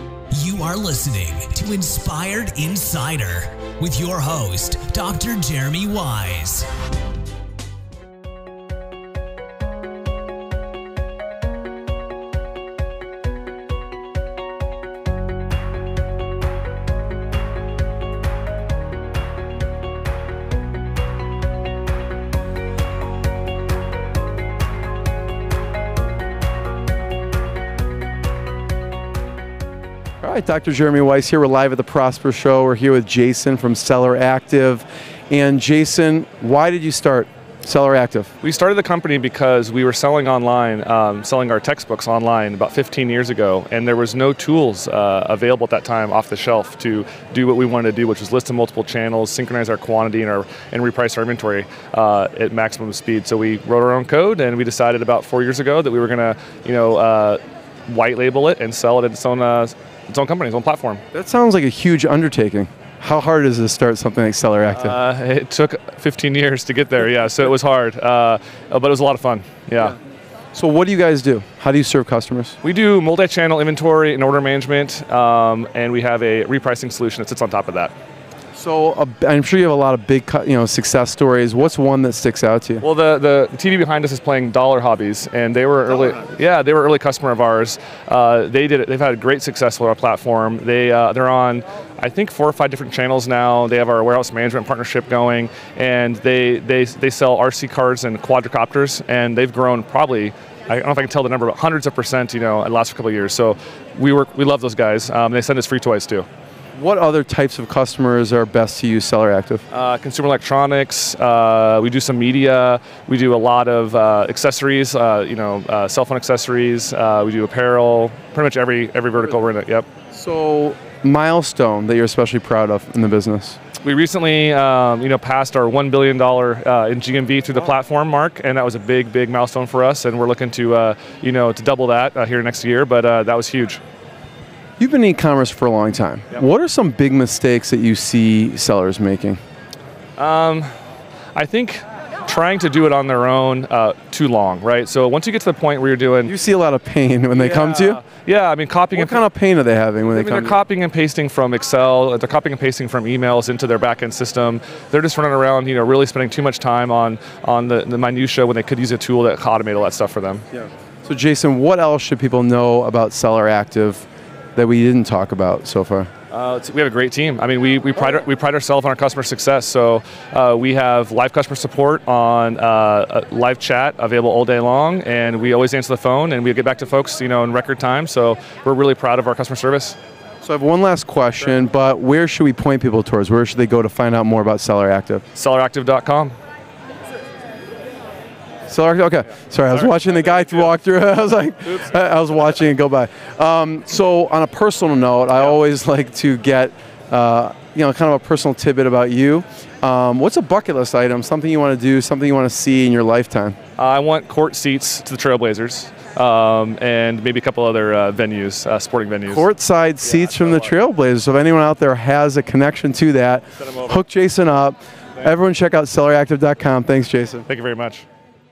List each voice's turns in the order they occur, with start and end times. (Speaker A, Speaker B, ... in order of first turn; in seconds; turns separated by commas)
Speaker A: 0.3-6.7, Speaker B: 30.2-38.3, Speaker C: 38.4-61.0, Speaker B: 61.1-65.0, Speaker C: 64.7-70.0, Speaker B: 70.5-72.6, Speaker C: 72.6-77.9, Speaker B: 78.5-82.8, Speaker C: 82.8-106.2, Speaker B: 106.8-109.6, Speaker C: 109.7-119.9, Speaker B: 120.1-123.6, Speaker C: 123.8-133.8, Speaker B: 134.8-139.4, Speaker C: 140.2-140.7, Speaker C: 141.3-146.3, Speaker B: 146.2-148.0, Speaker C: 147.3-149.2, Speaker B: 148.9-150.6, Speaker C: 150.0-160.4, Speaker B: 161.0-166.1, Speaker C: 166.3-180.0, Speaker B: 180.4-185.2, Speaker C: 185.3-186.3, Speaker B: 188.7-203.6, Speaker C: 189.8-190.7, Speaker C: 203.8-209.4, Speaker B: 209.3-217.4, Speaker C: 210.0-210.7, Speaker C: 213.6-214.0, Speaker C: 217.5-218.0